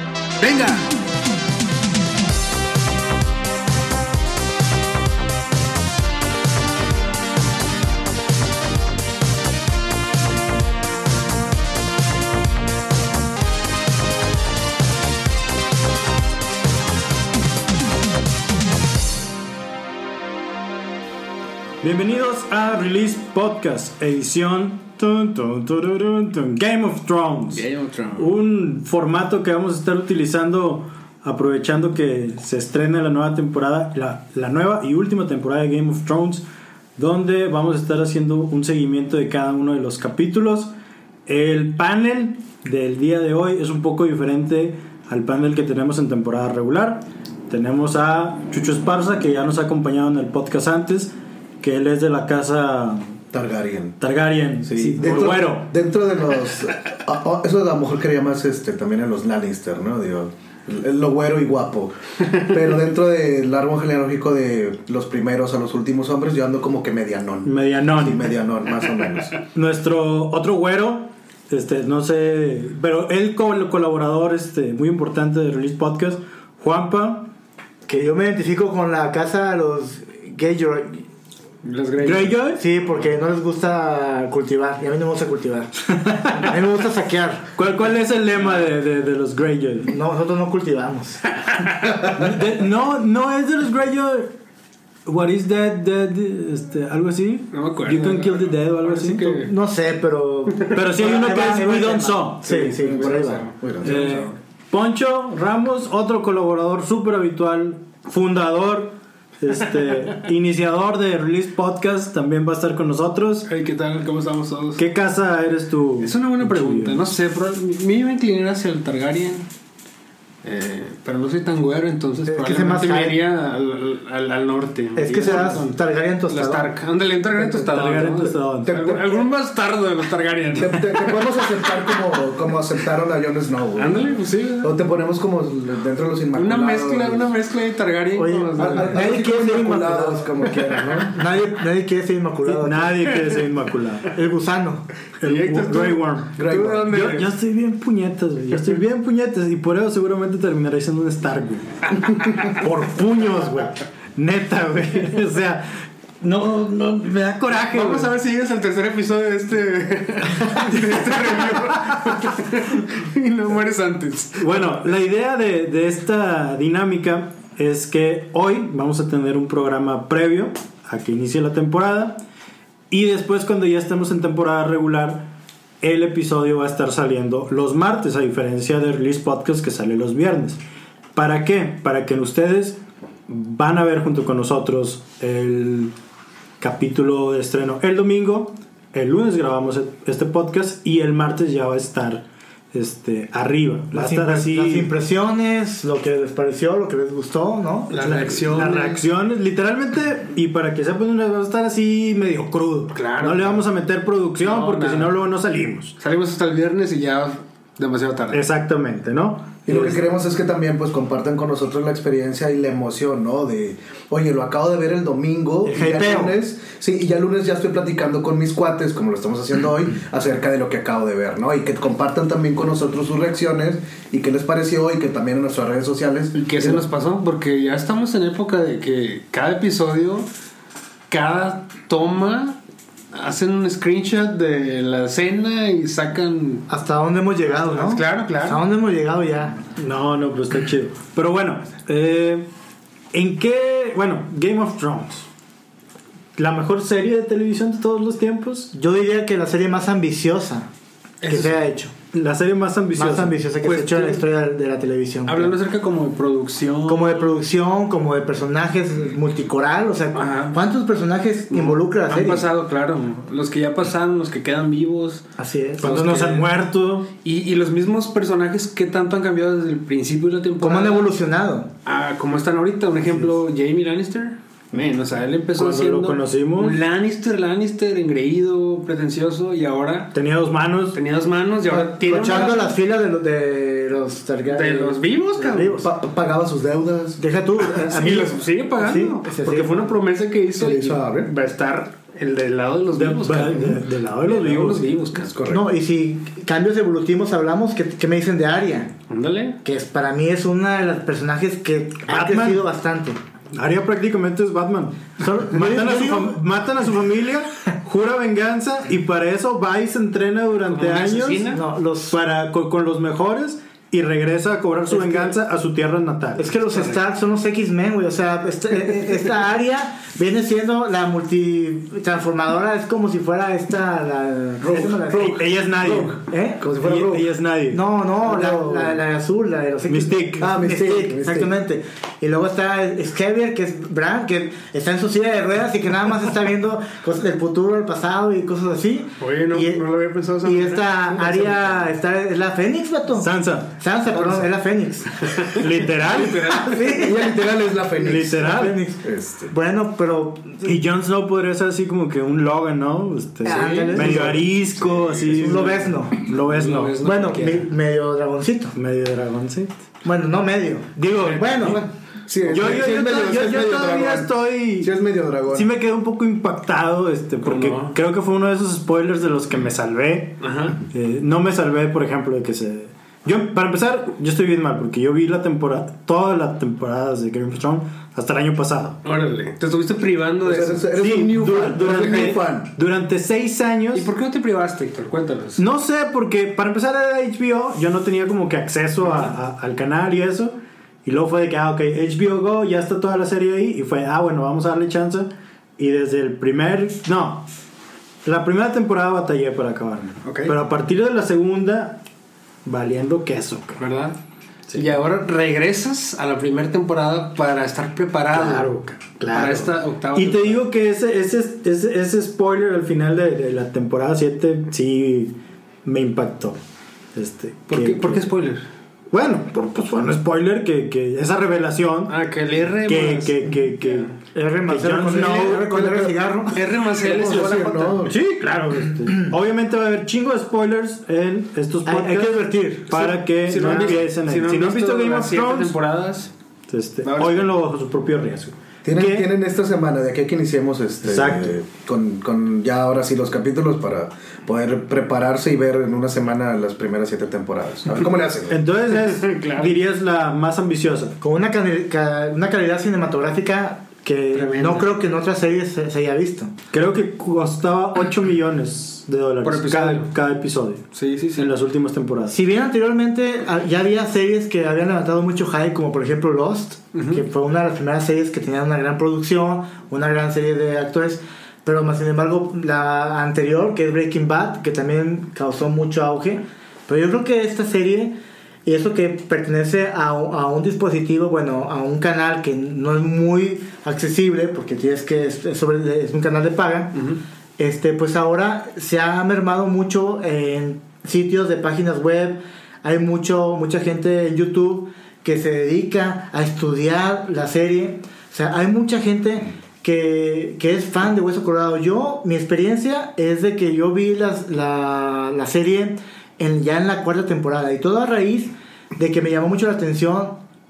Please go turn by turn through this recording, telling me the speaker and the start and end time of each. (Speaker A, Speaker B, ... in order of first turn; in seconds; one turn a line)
Speaker A: 0.4-0.9
Speaker B: 21.8-36.4
Speaker A: 27.5-28.3
Speaker B: 37.0-40.7
Speaker B: 41.3-53.2
Speaker C: 53.3-54.0
Speaker B: 54.0-55.7
Speaker C: 54.6-69.4
Speaker B: 67.5-68.3
Speaker B: 69.5-77.3
Speaker D: 77.9-81.0
Speaker A: 81.6-82.4
Speaker B: 82.0-82.6
Speaker D: 82.6-85.7
Speaker B: 86.1-86.5
Speaker D: 86.3-87.5
Speaker B: 87.6-89.9
Speaker D: 89.9-91.2
Speaker B: 92.0-94.3
Speaker B: 95.1-99.5
Speaker A: 97.5-99.5
Speaker D: 99.5-103.5
Speaker B: 100.7-102.8
Speaker A: 102.4-104.2
Speaker C: 103.6-104.3
Speaker B: 103.8-113.5
Speaker A: 113.5-114.8
Speaker B: 114.8-117.0
Speaker A: 116.0-119.5
Speaker A: 120.4-131.9
Speaker D: 122.3-123.2
Speaker D: 125.0-126.7
Speaker B: 127.4-128.9
Speaker C: 128.7-129.0
Speaker C: 130.5-137.3
Speaker A: 133.8-134.8
Speaker A: 136.3-139.1
Speaker D: 138.2-140.5
Speaker C: 138.6-141.2
Speaker D: 141.1-143.1
Speaker B: 142.4-144.1
Speaker D: 144.1-144.9
Speaker B: 145.2-158.2
Speaker A: 145.2-147.3
Speaker C: 146.4-147.1
Speaker A: 157.7-164.8
Speaker B: 164.4-172.2
Speaker B: 172.9-180.6
Speaker B: 181.2-185.9
Speaker B: 186.6-194.9
Speaker D: 193.9-197.9
Speaker A: 197.9-199.0
Speaker B: 198.0-206.0
Speaker A: 202.9-203.7
Speaker A: 204.4-205.1
Speaker A: 206.0-208.4
Speaker B: 208.3-210.1
Speaker C: 209.7-226.8
Speaker D: 215.7-216.3
Speaker A: 226.3-230.3
Speaker A: 231.1-232.6
Speaker A: 233.1-236.7
Speaker D: 236.7-239.6
Speaker A: 237.6-238.6
Speaker B: 239.8-242.5
Speaker B: 243.1-245.3
Speaker B: 246.4-248.7
Speaker D: 248.7-250.7
Speaker A: 251.2-251.6
Speaker D: 251.3-251.9
Speaker B: 252.1-253.4
Speaker D: 252.9-255.6
Speaker A: 253.6-254.3
Speaker A: 255.3-257.3
Speaker D: 256.9-262.5
Speaker A: 260.1-260.6
Speaker A: 261.5-265.2
Speaker D: 265.4-266.4
Speaker B: 265.8-267.1
Speaker A: 265.8-266.4
Speaker A: 267.2-271.1
Speaker D: 270.6-271.7
Speaker A: 271.9-280.1
Speaker B: 275.6-276.8
Speaker B: 280.1-281.0
Speaker A: 280.9-282.8
Speaker C: 281.7-282.6
Speaker D: 282.0-285.9
Speaker A: 284.5-285.8
Speaker C: 285.8-287.2
Speaker D: 287.2-289.9
Speaker A: 287.6-295.4
Speaker C: 290.6-291.3
Speaker B: 292.9-294.9
Speaker C: 295.2-295.7
Speaker D: 295.5-298.9
Speaker A: 299.1-299.6
Speaker D: 299.6-303.2
Speaker B: 302.1-302.6
Speaker B: 303.5-311.5
Speaker D: 305.2-306.4
Speaker A: 310.7-311.6
Speaker D: 311.5-312.2
Speaker B: 312.1-316.6
Speaker D: 314.9-315.3
Speaker D: 316.4-325.5
Speaker C: 324.6-325.3
Speaker B: 324.7-327.8
Speaker C: 325.8-327.3
Speaker D: 326.2-326.6
Speaker D: 327.7-339.8
Speaker C: 328.2-329.0
Speaker B: 329.9-330.5
Speaker C: 330.4-331.5
Speaker A: 339.2-341.8
Speaker D: 340.4-345.5
Speaker B: 343.1-343.8
Speaker C: 344.1-344.5
Speaker A: 345.4-347.1
Speaker B: 345.5-346.5
Speaker D: 346.5-347.3
Speaker C: 346.9-349.5
Speaker B: 348.0-348.8
Speaker D: 348.4-350.8
Speaker B: 350.6-356.9
Speaker D: 353.4-354.5
Speaker A: 353.4-357.7
Speaker D: 355.3-356.2
Speaker D: 357.0-358.8
Speaker B: 358.7-359.7
Speaker D: 360.0-361.8
Speaker B: 360.9-361.8
Speaker C: 361.4-365.7
Speaker B: 362.4-364.9
Speaker B: 365.5-379.0
Speaker A: 367.4-367.9
Speaker A: 370.4-370.8
Speaker A: 379.0-380.9
Speaker C: 380.4-382.7
Speaker B: 381.0-384.1
Speaker A: 381.8-382.4
Speaker A: 383.9-385.6
Speaker B: 385.6-397.5
Speaker B: 398.2-402.0
Speaker A: 400.2-400.6
Speaker B: 402.6-403.8
Speaker A: 403.8-404.2
Speaker B: 404.7-405.0
Speaker A: 404.7-408.7
Speaker B: 408.3-416.6
Speaker A: 409.3-410.7
Speaker B: 417.1-418.3
Speaker A: 417.7-418.6
Speaker B: 419.1-422.2
Speaker A: 422.1-424.1
Speaker B: 422.8-424.1
Speaker D: 424.3-426.7
Speaker B: 424.7-426.1
Speaker A: 425.2-425.9
Speaker A: 426.5-428.1
Speaker C: 427.0-428.2
Speaker B: 428.1-435.8
Speaker D: 431.9-433.0
Speaker A: 432.9-436.3
Speaker B: 436.7-439.3
Speaker A: 437.0-437.4
Speaker C: 438.9-448.6
Speaker B: 441.0-441.6
Speaker B: 448.5-451.2
Speaker A: 449.0-449.8
Speaker D: 451.2-456.5
Speaker A: 454.3-455.0
Speaker B: 456.7-462.4
Speaker A: 459.4-460.1
Speaker A: 460.9-461.5
Speaker D: 462.3-487.0
Speaker A: 466.9-467.2
Speaker D: 487.6-510.4